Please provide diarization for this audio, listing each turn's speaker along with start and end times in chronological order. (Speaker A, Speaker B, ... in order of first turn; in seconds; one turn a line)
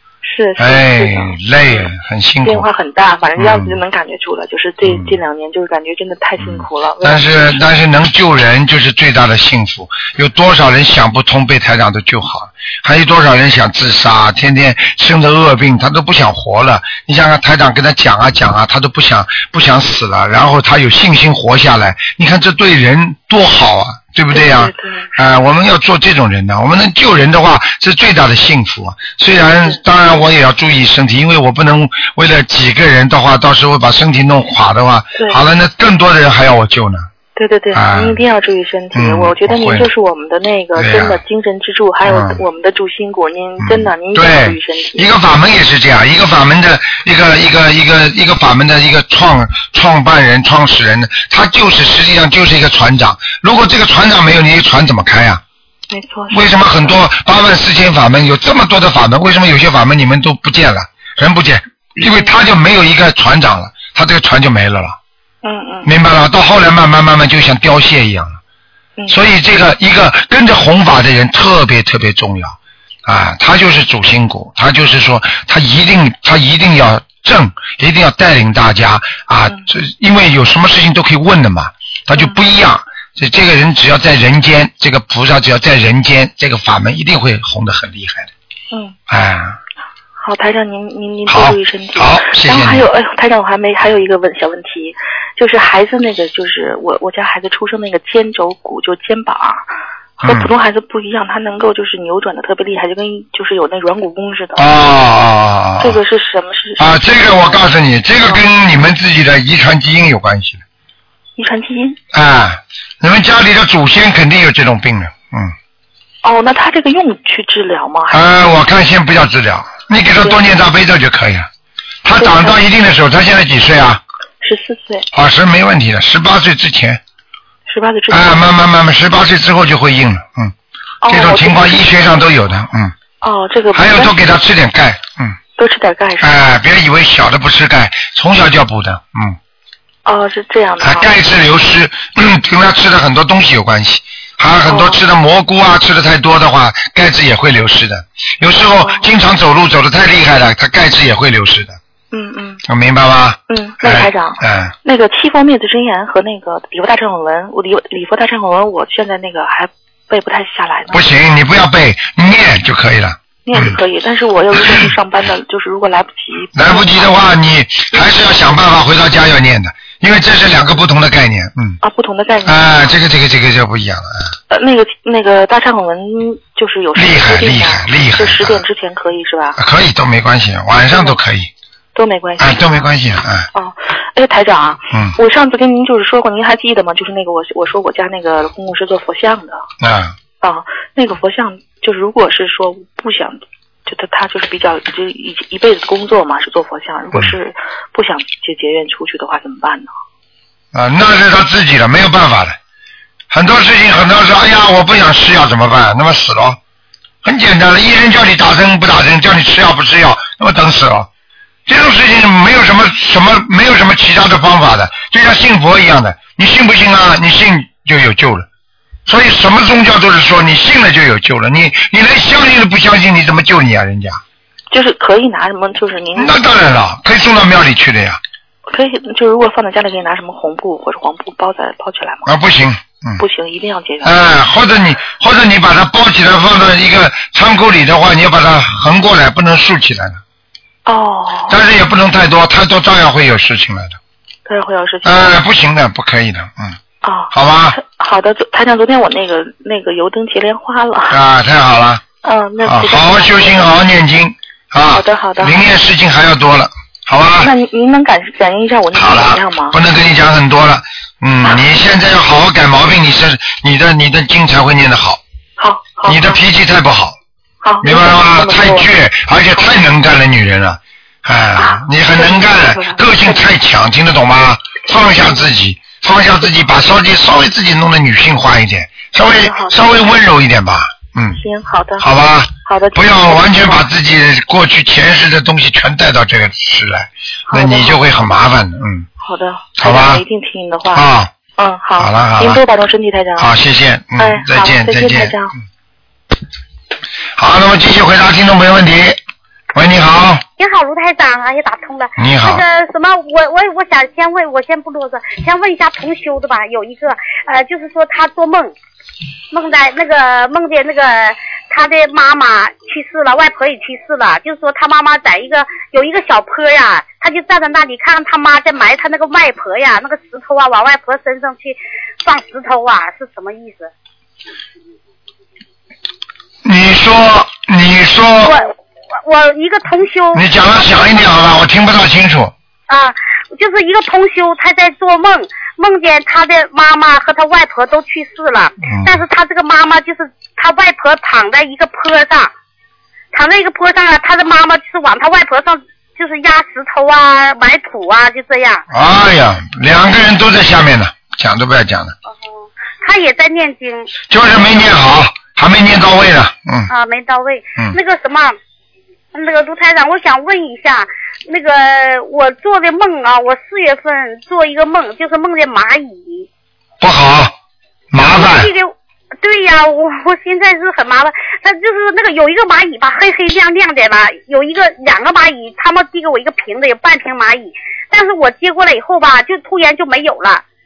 Speaker A: 0.2-1.9
Speaker B: 0.6-2.7
Speaker A: 2.4-7.6
Speaker B: 3.4-3.8
Speaker B: 4.8-5.2
Speaker B: 6.4-37.1
Speaker A: 24.3-25.1
Speaker A: 37.4-45.1
Speaker B: 37.7-38.2
Speaker B: 38.9-39.9
Speaker B: 40.8-41.2
Speaker B: 42.0-42.4
Speaker B: 43.6-55.4
Speaker A: 55.9-56.9
Speaker B: 56.3-65.0
Speaker A: 65.4-65.9
Speaker B: 65.8-68.4
Speaker B: 69.1-88.3
Speaker A: 88.7-89.0
Speaker B: 89.1-89.6
Speaker A: 90.2-99.7
Speaker B: 91.3-92.8
Speaker A: 100.2-104.6
Speaker B: 100.2-100.5
Speaker B: 104.5-106.0
Speaker A: 105.8-107.6
Speaker B: 106.8-110.6
Speaker A: 111.4-112.0
Speaker B: 112.1-115.5
Speaker A: 116.2-118.2
Speaker B: 118.1-121.5
Speaker B: 122.0-124.0
Speaker A: 122.2-122.6
Speaker A: 124.4-125.1
Speaker B: 125.1-127.0
Speaker A: 127.7-128.4
Speaker B: 128.1-130.5
Speaker A: 131.0-131.9
Speaker B: 131.1-132.9
Speaker A: 133.2-134.2
Speaker B: 133.7-135.4
Speaker A: 135.6-136.3
Speaker B: 136.2-139.4
Speaker A: 140.1-141.1
Speaker B: 140.8-151.8
Speaker A: 144.7-145.0
Speaker A: 148.6-149.1
Speaker A: 152.1-152.6
Speaker B: 152.7-154.7
Speaker A: 153.5-161.0
Speaker B: 160.9-163.8
Speaker A: 163.4-167.2
Speaker B: 164.6-164.9
Speaker B: 166.5-171.8
Speaker A: 167.9-168.2
Speaker A: 171.8-172.8
Speaker B: 172.4-174.3
Speaker A: 174.5-179.6
Speaker B: 176.9-178.6
Speaker B: 179.6-181.5
Speaker A: 180.8-181.2
Speaker A: 181.9-182.8
Speaker B: 182.4-183.5
Speaker A: 183.5-189.6
Speaker B: 189.8-190.2
Speaker A: 190.4-199.9
Speaker B: 200.7-202.6
Speaker B: 203.3-206.6
Speaker B: 207.2-211.1
Speaker B: 211.7-218.5
Speaker B: 219.1-224.2
Speaker A: 224.7-226.4
Speaker B: 226.2-228.2
Speaker A: 228.7-232.3
Speaker B: 232.2-233.2
Speaker A: 233.2-234.1
Speaker B: 234.0-240.2
Speaker A: 240.8-241.6
Speaker B: 241.5-244.0
Speaker A: 244.5-245.3
Speaker B: 245.0-246.8
Speaker A: 247.0-251.2
Speaker B: 247.3-247.8
Speaker B: 251.1-252.0
Speaker A: 252.2-253.7
Speaker B: 252.6-257.5
Speaker A: 254.9-255.6
Speaker A: 257.4-259.8
Speaker B: 258.9-265.2
Speaker A: 265.6-266.4
Speaker B: 266.0-267.1
Speaker A: 267.6-268.9
Speaker B: 267.8-281.4
Speaker A: 271.6-273.4
Speaker A: 274.9-275.4
Speaker A: 279.2-280.1
Speaker A: 281.3-282.1
Speaker B: 282.0-289.1
Speaker A: 282.6-283.8
Speaker A: 287.5-288.2
Speaker A: 289.2-291.0
Speaker B: 289.8-290.2
Speaker B: 290.9-291.3
Speaker A: 291.6-293.5
Speaker B: 292.0-292.6
Speaker B: 293.4-295.4
Speaker A: 294.2-295.5
Speaker B: 297.4-299.2
Speaker B: 299.7-300.4
Speaker C: 300.6-308.7
Speaker B: 302.2-302.6
Speaker C: 309.5-323.9
Speaker B: 326.6-328.5
Speaker C: 328.4-331.2
Speaker B: 330.3-332.5
Speaker C: 332.9-342.5
Speaker B: 338.8-339.2
Speaker C: 343.3-348.8
Speaker B: 348.9-352.1
Speaker C: 352.3-354.1
Speaker B: 354.3-356.9
Speaker C: 356.9-358.6
Speaker C: 359.3-366.5
Speaker B: 367.0-367.5
Speaker B: 368.1-368.7
Speaker C: 368.2-380.6